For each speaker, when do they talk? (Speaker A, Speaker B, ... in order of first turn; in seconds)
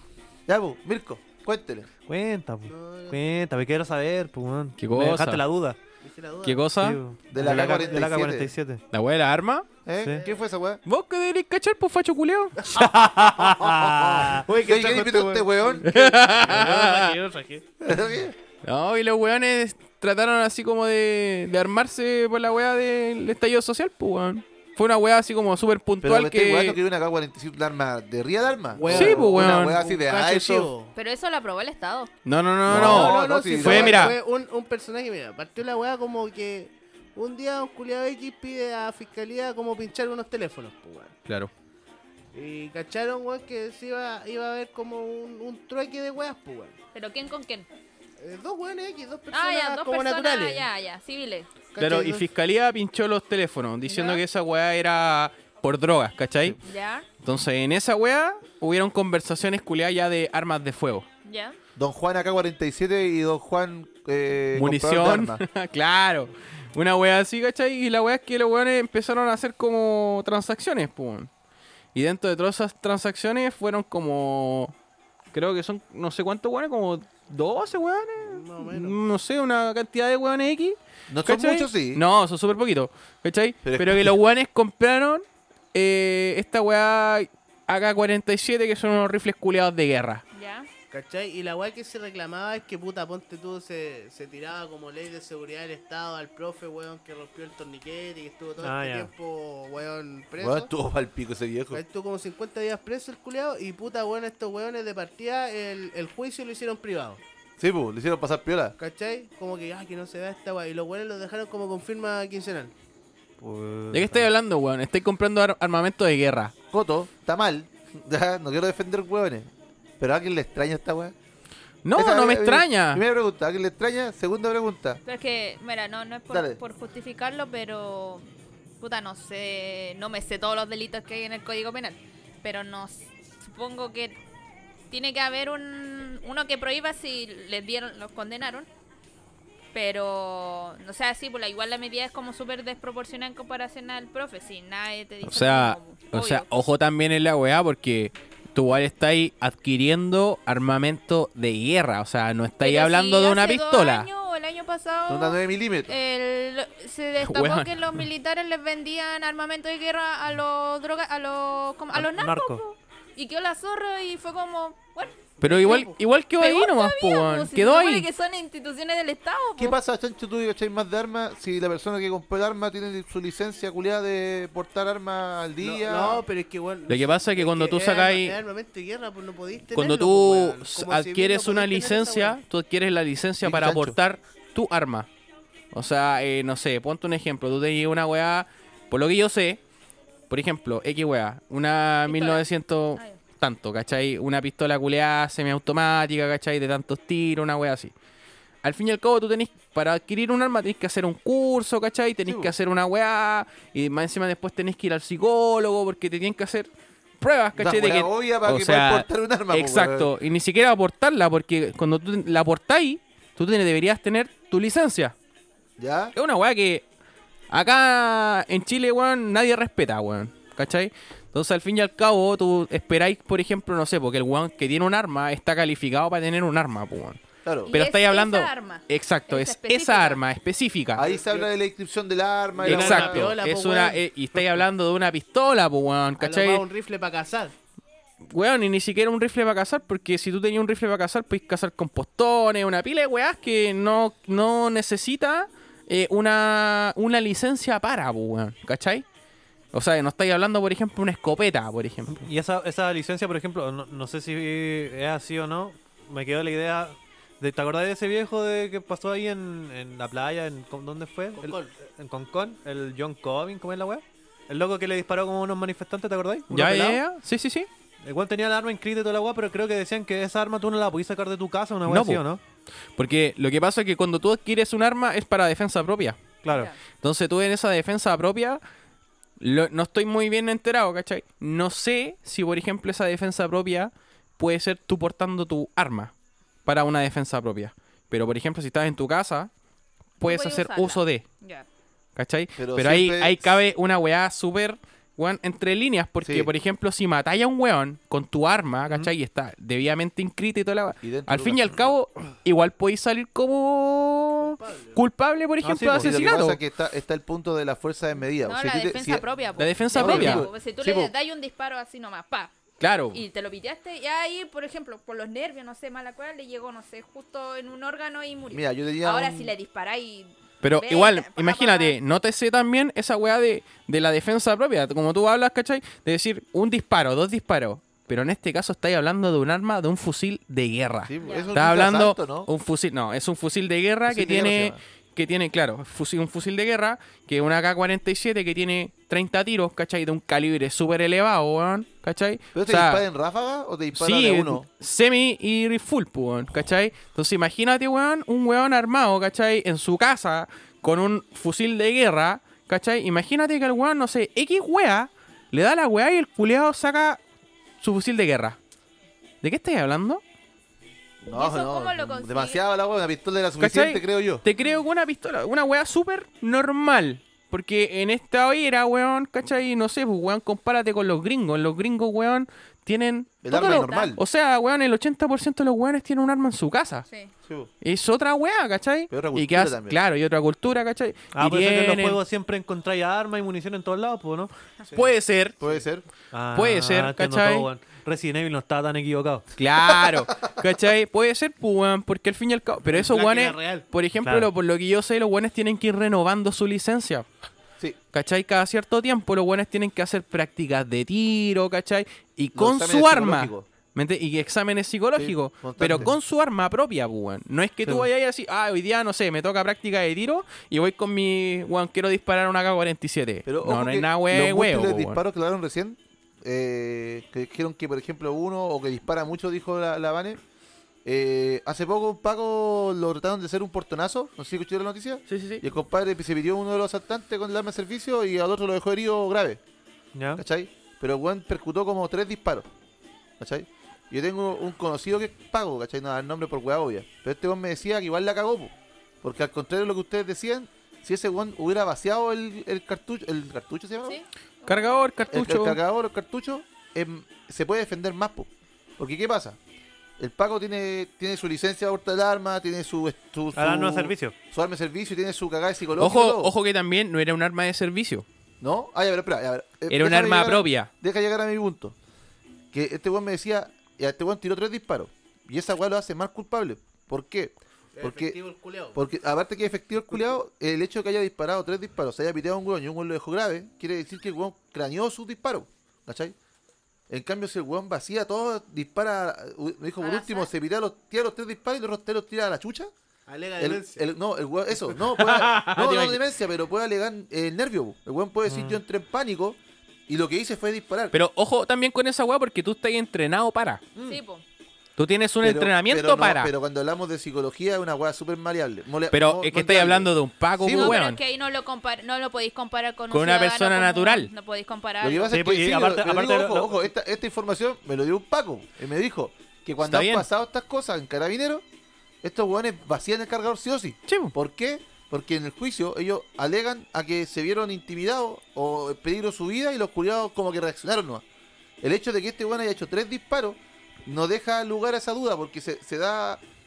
Speaker A: 0.5-1.9, 7.3-8.5, 9.8-10.8, 13.4-15.9, 17.8-18.4, 26.0-30.7, 32.6-34.1, 61.8-65.4, 81.1-82.0, 83.6-84.1, 100.4-101.8, 107.6-108.8, 116.7-121.1, 121.9-125.0, 126.3-126.6, 155.1-155.9, 169.6-176.2, 183.4-184.0, 202.2-202.5, 207.6-210.1, 215.8-216.1, 227.4-227.7, 230.9-233.3, 292.6-293.6, 296.2-296.5, 301.0-301.9, 306.0-309.2, 309.9-311.1, 318.5-319.5, 331.1-332.5, 334.1-334.8, 342.5-344.6, 361.2-364.4, 373.4-374.2, 377.4-377.7, 379.1-380.0, 385.6-386.0, 389.9-390.5, 402.5-403.7, 405.1-406.2, 413.4-420.4, 421.0-429.6, 430.4-432.7, 433.4-444.2, 445.3-449.6, 450.2-456.5, 458.6-461.9, 462.7-468.4, 468.9-476.3, 477.1-482.9, 483.6-491.1, 495.4-501.0, 505.0-511.6, 512.2-521.2, 521.8-526.4
Speaker B: 2.1-5.8, 6.8-8.8, 12.7-15.0, 98.6-99.1, 113.4-114.3, 161.9-162.6, 252.1-267.0, 268.0-272.4, 276.4-276.7, 305.6-306.2, 381.3-384.5, 386.3-389.4, 394.2-394.5, 430.1-430.4, 453.5-454.3, 488.5-488.8, 505.3-506.8
Speaker C: 2.7-3.2, 6.0-6.7, 7.5-8.0, 10.1-10.4, 14.4-17.6, 28.7-30.9, 32.7-41.1, 42.3-46.8, 48.2-50.7, 51.7-52.2, 78.2-79.0, 90.9-100.7, 101.7-107.2, 108.8-112.7, 165.4-165.9, 175.6-182.3, 231.0-231.5, 232.5-234.0, 236.2-237.5, 261.4-261.7, 304.4-305.0, 392.9-393.8, 467.9-469.0, 483.3-484.0
Speaker D: 4.8-5.4, 6.4-7.0, 8.9-9.7, 10.8-12.7, 15.8-17.2, 18.6-26.8, 28.9-29.8, 32.2-34.2, 51.8-56.6, 57.2-61.1, 64.5-71.3, 71.9-74.7, 75.3-85.2, 85.7-90.2, 113.9-116.5, 121.8-123.0, 145.2-154.1, 157.2-158.1, 165.4-168.1, 176.9-178.4, 179.7-185.1, 185.7-189.6, 190.3-197.9, 198.6-206.7, 207.2-215.1, 216.2-216.8, 217.5-227.2, 227.7-231.0, 232.7-236.6, 238.3-249.0, 249.7-252.2, 266.5-267.7, 271.9-272.2, 273.0-276.2, 277.0-278.6, 279.4-286.1, 286.6-289.5, 290.2-291.2, 292.1-306.6, 309.6-310.5, 312.8-313.2, 320.6-343.0, 343.9-357.2, 357.8-358.6, 359.4-360.2, 363.6-377.1, 377.8-382.2, 384.9-385.6, 386.5-387.7, 389.6-397.2, 398.1-415.2, 425.3-425.6, 444.7-445.8, 456.0-458.2, 459.9-460.9, 485.1-486.2, 491.1-493.9, 495.0-496.5, 499.1-501.2, 503.1-504.3, 509.8-510.2, 514.1-514.3
Speaker E: 30.9-32.1, 46.9-47.7, 49.3-51.5, 53.9-54.2, 56.6-57.0, 61.2-61.6, 90.3-90.7, 125.0-128.3, 128.8-134.2, 134.9-138.7, 139.7-146.4, 152.6-169.7, 192.1-192.4, 192.9-193.2, 227.7-230.2, 276.5-276.8, 290.2-291.6, 308.4-312.5, 313.1-321.9, 331.2-331.5, 361.3-362.6, 373.5-374.1, 377.1-377.3, 444.0-444.9, 480.0-480.5, 494.0-494.4, 500.7-505.4